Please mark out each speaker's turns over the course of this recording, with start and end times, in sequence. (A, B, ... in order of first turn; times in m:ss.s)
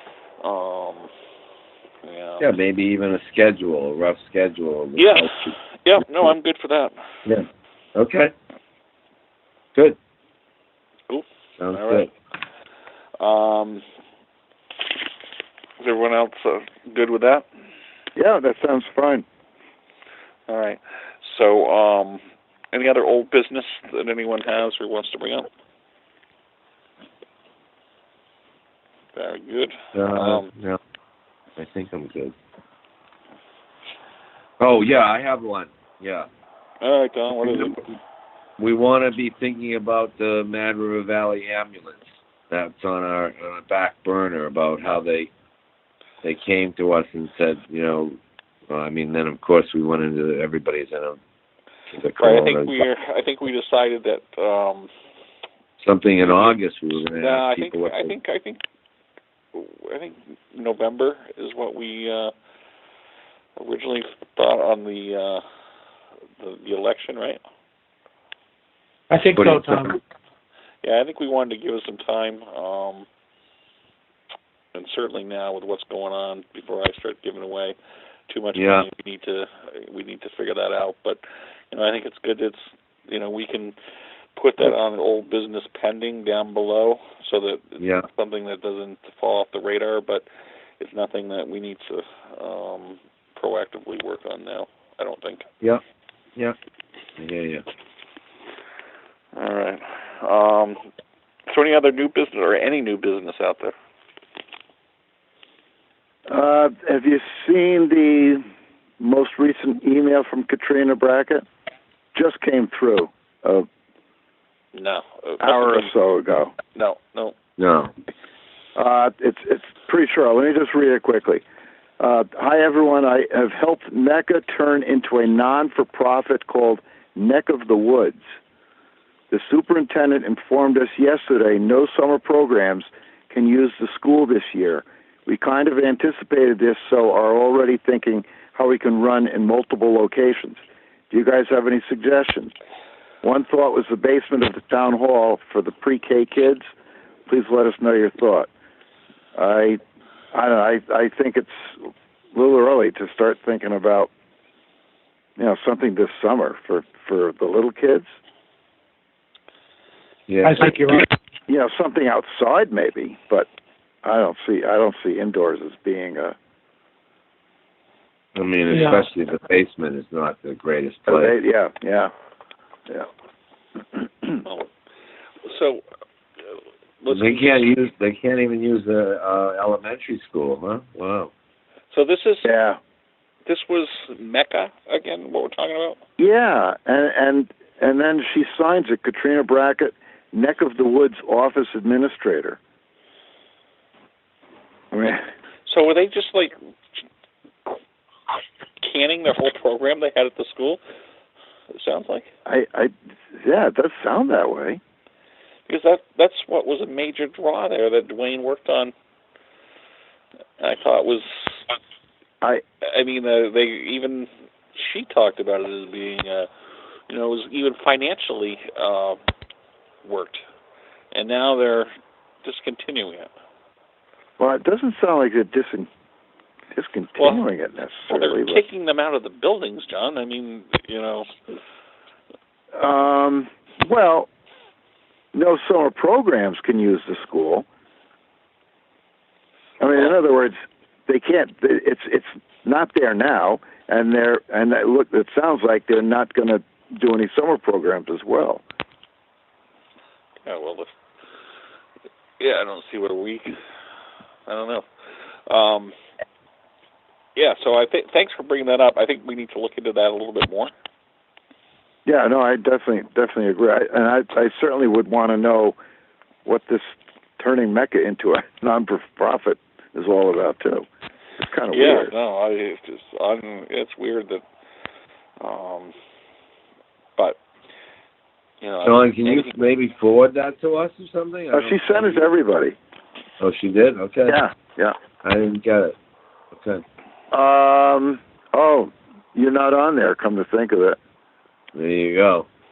0:00.4-0:01.1 A
0:02.0-0:02.5 A
0:02.4-0:05.6 B
0:05.0-0:07.0 A
0:08.0-0:08.3 B
0:11.1-0:12.1 A
0:11.6-0:12.1 B
0:13.2-0:13.8 A
0:15.8-0:17.5 A
0:18.2-0:19.2 C
0:20.5-0:22.2 A
0:22.7-0:25.5 A
0:29.1-0:30.5 A
0:29.9-0:30.8 B
0:31.6-0:32.4 B
0:34.6-0:36.3 B
0:36.8-0:37.9 A
0:37.4-0:37.8 B
0:38.6-0:45.3 B
0:46.2-0:48.2 B
0:48.7-0:51.2 B
0:51.9-0:52.8 B
0:52.2-0:54.9 A
0:55.8-0:58.1 B
0:56.2-0:56.6 A
0:57.2-0:58.6 A
0:59.5-1:02.3 A
1:03.6-1:05.4 A
1:06.4-1:07.4 A
1:09.1-1:10.0 D
1:09.4-1:10.0 B
1:10.8-1:13.1 A
1:14.8-1:17.8 A
1:18.3-1:23.8 A
1:18.6-1:18.9 B
1:24.4-1:30.3 A
1:27.8-1:28.1 B
1:30.8-1:35.5 A
1:37.2-1:37.6 B
1:39.4-1:40.8 A
1:41.5-1:43.8 A
1:46.3-1:48.4 C
1:49.0-1:51.4 C
1:52.1-1:53.7 C
1:54.7-1:55.9 A
1:55.4-1:56.5 C
1:56.7-1:57.4 A
1:57.6-1:57.9 B
1:58.8-2:01.4 C
2:02.0-2:08.3 C
2:09.3-2:22.5 C
2:23.2-2:26.7 C
2:27.3-2:28.5 C
2:29.4-2:29.8 C
2:30.3-2:34.1 C
2:35.4-2:38.1 C
2:40.3-2:41.0 B
2:40.4-2:41.1 D
2:41.5-2:43.5 C
2:44.0-2:46.4 C
2:48.4-2:51.3 B
2:48.7-2:49.1 D
2:51.1-2:52.1 C
2:53.9-2:54.4 C
2:55.4-2:55.8 A
2:57.0-2:57.7 A
2:57.1-3:01.3 B
3:01.9-3:02.5 A
3:02.4-3:02.8 C
3:03.5-3:06.0 A
3:06.2-3:12.6 C
3:14.9-3:15.2 C
3:15.7-3:16.6 A
3:18.8-3:20.8 A
3:21.7-3:22.3 A
3:22.5-3:24.8 C
3:25.7-3:28.9 A
3:30.6-3:31.6 A
3:32.8-3:36.5 A
3:37.1-3:39.2 A
3:40.0-3:40.4 A
3:41.1-3:41.9 A
3:42.4-3:43.3 A
3:44.4-3:45.9 C
3:46.8-3:48.6 C
3:47.2-3:47.4 A
3:48.1-3:51.3 A
3:52.8-3:54.3 C
3:55.3-3:57.7 C
3:59.8-4:08.6 C
4:10.4-4:10.9 A
4:12.4-4:13.6 A
4:14.5-4:14.9 A
4:15.5-4:15.9 A
4:17.4-4:20.7 A
4:22.1-4:25.8 C
4:26.4-4:30.9 C
4:31.4-4:32.1 C
4:31.7-4:34.4 A
4:35.4-4:35.9 A
4:38.6-4:39.6 A
4:38.8-4:42.3 B
4:41.5-4:42.8 C
4:43.4-4:44.4 B
4:44.3-4:45.0 C
4:45.2-4:46.0 B
4:46.6-4:46.8 B
4:47.3-4:51.0 C
4:51.8-4:52.5 B